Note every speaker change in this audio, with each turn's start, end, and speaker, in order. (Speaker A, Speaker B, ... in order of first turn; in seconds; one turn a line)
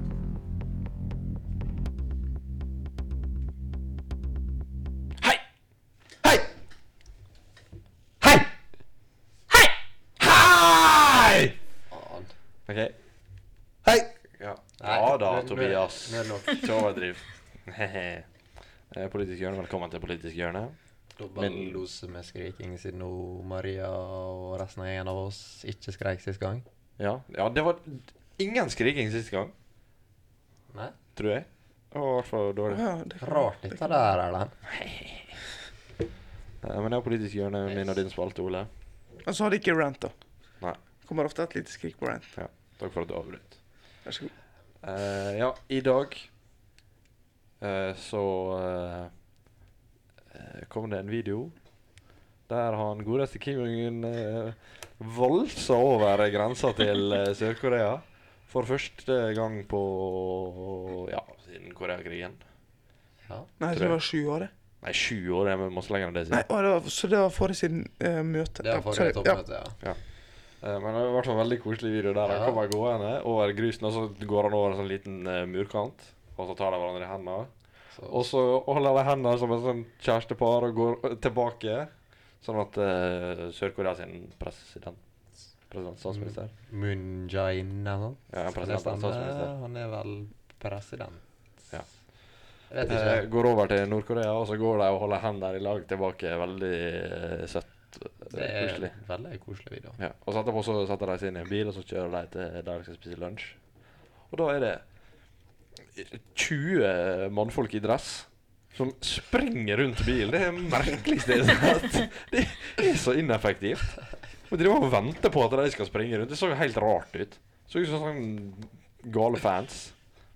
Speaker A: 8.2-8.5
Speaker A: 10.2-11.6
Speaker B: 11.9-12.3
Speaker A: 12.7-12.9
Speaker A: 13.9-18.3
Speaker B: 14.8-16.7
Speaker A: 18.9-20.8
Speaker B: 21.2-26.6
Speaker A: 21.4-21.8
Speaker A: 27.0-29.5
Speaker B: 30.7-31.0
Speaker A: 31.2-32.8
Speaker C: 32.7-33.9
Speaker B: 33.2-34.6
Speaker A: 34.7-35.3
Speaker A: 36.6-38.7
Speaker C: 39.2-40.1
Speaker C: 41.0-42.3
Speaker A: 42.4-43.6
Speaker C: 44.0-44.3
Speaker A: 44.8-46.3
Speaker A: 47.6-49.1
Speaker A: 50.3-51.6
Speaker A: 52.5-62.4
Speaker B: 63.3-63.5
Speaker C: 63.6-64.5
Speaker A: 63.7-64.0
Speaker A: 64.8-66.5
Speaker C: 66.3-69.4
Speaker B: 68.6-69.8
Speaker A: 70.6-77.5
Speaker B: 72.3-72.6
Speaker B: 77.9-78.2
Speaker A: 78.1-85.0
Speaker A: 85.7-86.5
Speaker B: 86.1-91.2
Speaker A: 88.3-89.5
Speaker B: 92.7-93.3
Speaker A: 92.9-98.9
Speaker B: 98.3-100.0
Speaker A: 100.0-103.6
Speaker A: 104.3-104.8
Speaker A: 105.9-120.0